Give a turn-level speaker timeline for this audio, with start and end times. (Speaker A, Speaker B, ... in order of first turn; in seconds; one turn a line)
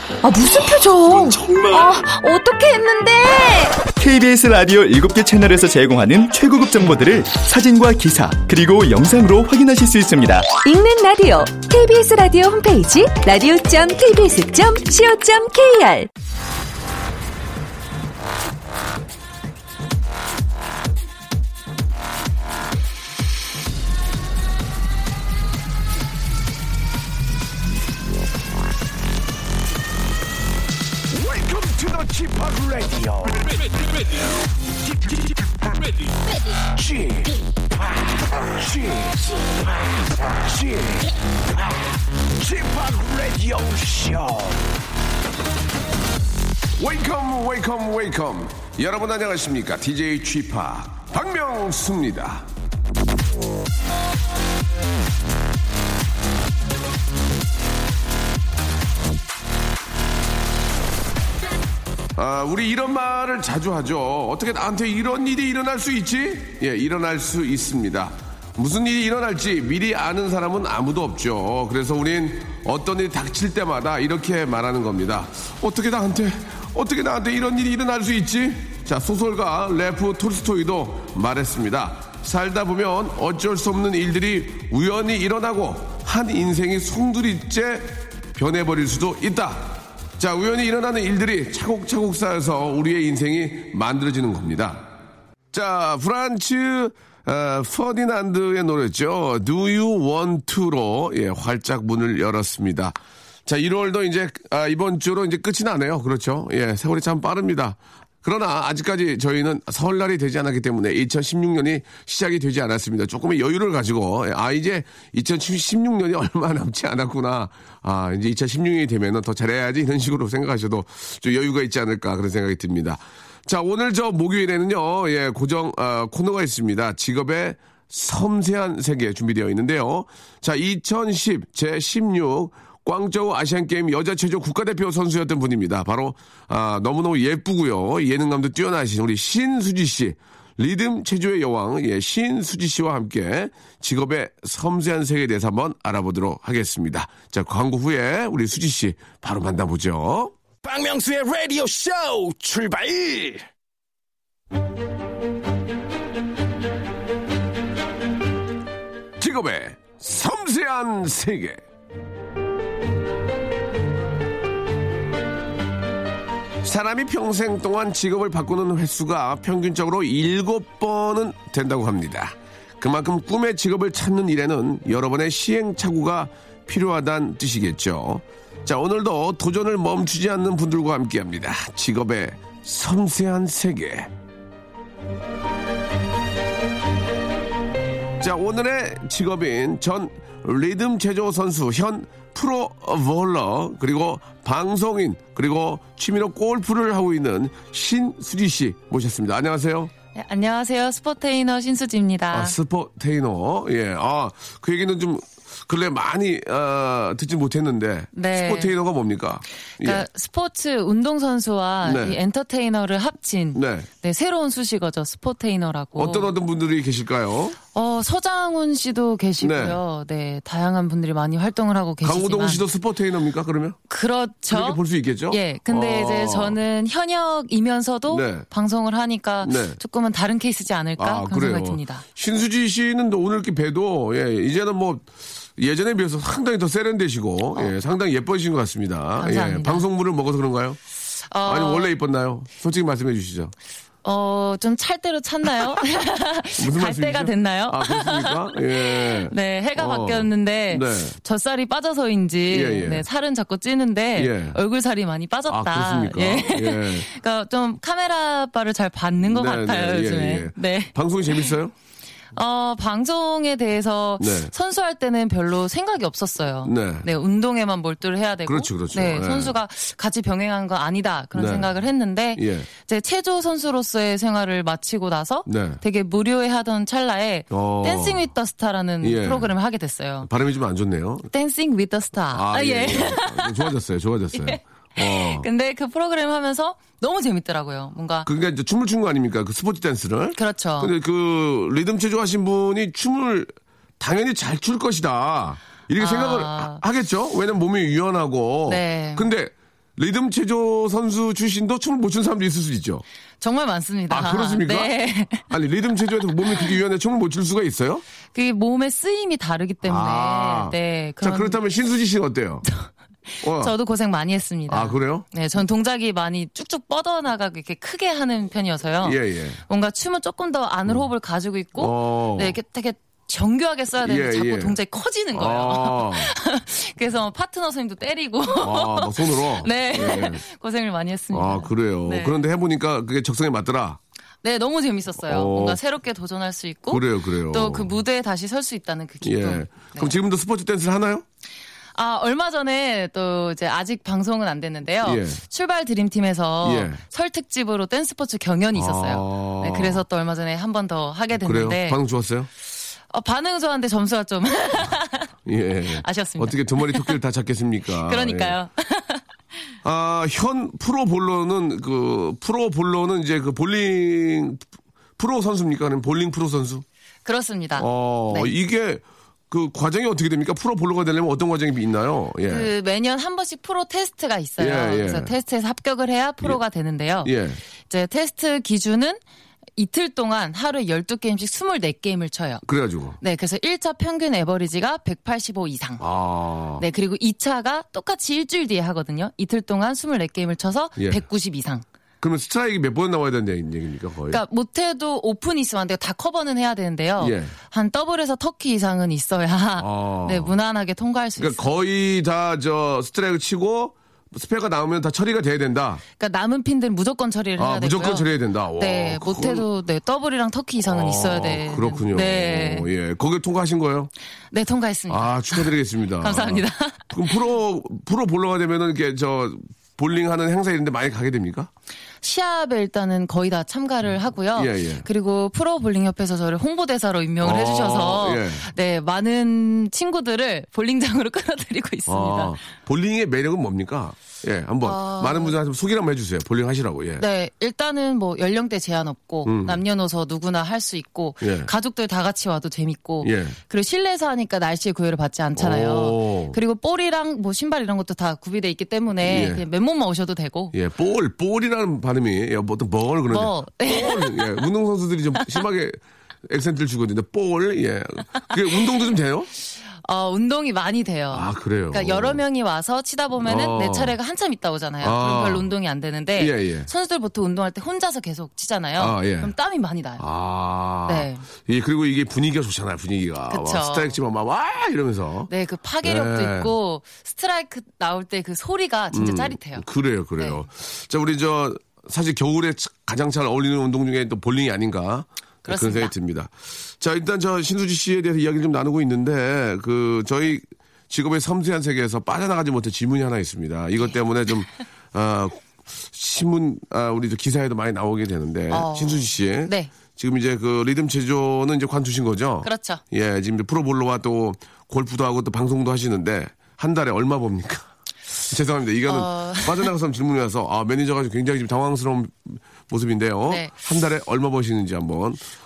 Speaker A: 0.3-2.1
Speaker B: 0.5-3.2
Speaker C: 2.0-3.5
Speaker A: 3.8-10.7
Speaker C: 10.6-16.1
Speaker D: 31.1-34.0
Speaker D: 34.9-36.1
Speaker D: 36.7-44.7
Speaker D: 46.8-52.5
Speaker D: 62.2-94.9
Speaker D: 95.5-150.3
Speaker E: 150.6-153.4
Speaker D: 159.2-161.6
Speaker D: 166.6-184.1
Speaker D: 188.2-199.9
Speaker B: 200.2-202.6
Speaker D: 202.3-210.1
Speaker B: 208.1-208.7
Speaker B: 209.8-216.3
Speaker D: 211.8-212.2
Speaker D: 213.5-213.9
Speaker D: 215.9-217.6
Speaker B: 217.7-222.7
Speaker D: 219.4-219.8
Speaker D: 222.0-223.8
Speaker B: 223.9-224.8
Speaker D: 224.5-226.6
Speaker B: 225.3-232.0
Speaker D: 228.1-228.5
Speaker D: 229.4-229.8
Speaker D: 231.0-240.8
Speaker B: 239.2-239.8
Speaker B: 241.3-241.9
Speaker D: 241.4-243.5
Speaker B: 244.0-261.5
Speaker D: 246.6-251.2
Speaker D: 252.5-253.1
Speaker D: 254.2-254.6
Speaker D: 255.5-257.1
Speaker D: 259.2-261.7
Speaker B: 262.3-280.3
Speaker D: 264.2-264.5
Speaker D: 266.6-267.1
Speaker D: 268.5-269.6
Speaker D: 271.3-271.7
Speaker D: 272.4-272.7
Speaker D: 275.4-275.8
Speaker D: 277.5-278.2
Speaker D: 279.0-279.6
Speaker D: 280.2-281.3
Speaker B: 281.3-283.7
Speaker D: 282.3-285.5
Speaker B: 284.3-288.3
Speaker D: 288.2-303.0
Speaker B: 290.4-290.9
Speaker B: 296.0-296.8
Speaker B: 298.6-299.3
Speaker B: 303.4-305.5
Speaker D: 304.1-308.1
Speaker B: 308.3-311.6
Speaker D: 309.8-312.6
Speaker B: 312.9-332.4
Speaker D: 313.4-313.7
Speaker D: 314.7-315.2
Speaker D: 319.0-319.6
Speaker D: 321.8-322.6
Speaker D: 324.0-324.8
Speaker D: 325.3-326.3
Speaker D: 328.6-330.4
Speaker D: 331.3-334.0
Speaker B: 334.4-340.1
Speaker D: 335.2-335.8
Speaker D: 336.9-337.9
Speaker D: 339.2-341.2
Speaker B: 341.9-352.0
Speaker D: 345.0-345.4
Speaker D: 346.6-347.0
Speaker D: 348.8-350.0
Speaker D: 351.3-352.5
Speaker B: 353.1-355.3
Speaker D: 355.4-358.6
Speaker B: 356.0-357.2
Speaker B: 358.1-359.2
Speaker D: 359.8-364.7
Speaker D: 365.2-366.8
Speaker B: 367.2-368.5
Speaker D: 367.8-372.7
Speaker B: 372.5-377.3
Speaker D: 374.6-375.3
Speaker D: 377.2-377.6
Speaker B: 377.9-379.2
Speaker B: 379.8-382.6
Speaker D: 382.6-383.2
Speaker B: 383.2-386.0
Speaker D: 386.0-386.8
Speaker B: 386.8-391.8
Speaker D: 391.0-391.2
Speaker D: 392.2-394.4
Speaker B: 394.3-401.7
Speaker D: 397.2-397.5
Speaker D: 399.8-400.5
Speaker D: 401.4-406.0
Speaker B: 406.2-412.9
Speaker D: 407.6-409.6
Speaker D: 410.8-414.1
Speaker B: 414.5-417.4
Speaker D: 415.1-421.7
Speaker B: 422.2-432.6
Speaker D: 424.5-425.1
Speaker D: 427.4-428.7
Speaker D: 432.1-437.2
Speaker B: 434.8-435.6
Speaker B: 437.2-450.8
Speaker D: 439.4-439.8
Speaker D: 441.4-441.7
Speaker D: 443.2-443.6
Speaker D: 445.6-446.6
Speaker D: 449.2-449.6
Speaker D: 450.7-459.5
Speaker B: 453.3-454.6
Speaker B: 460.0-470.2
Speaker D: 461.3-462.4
Speaker D: 463.4-464.1
Speaker D: 465.0-465.7
Speaker D: 466.4-466.9
Speaker D: 469.0-469.5
Speaker D: 470.2-475.5
Speaker B: 471.1-471.4
Speaker B: 473.5-474.2
Speaker B: 475.5-479.8
Speaker D: 476.0-476.7
Speaker D: 479.1-507.9
Speaker B: 485.6-486.1
Speaker B: 498.7-499.9
Speaker B: 502.6-503.0
Speaker D: 508.4-515.4
Speaker B: 509.1-509.9
Speaker B: 513.5-513.8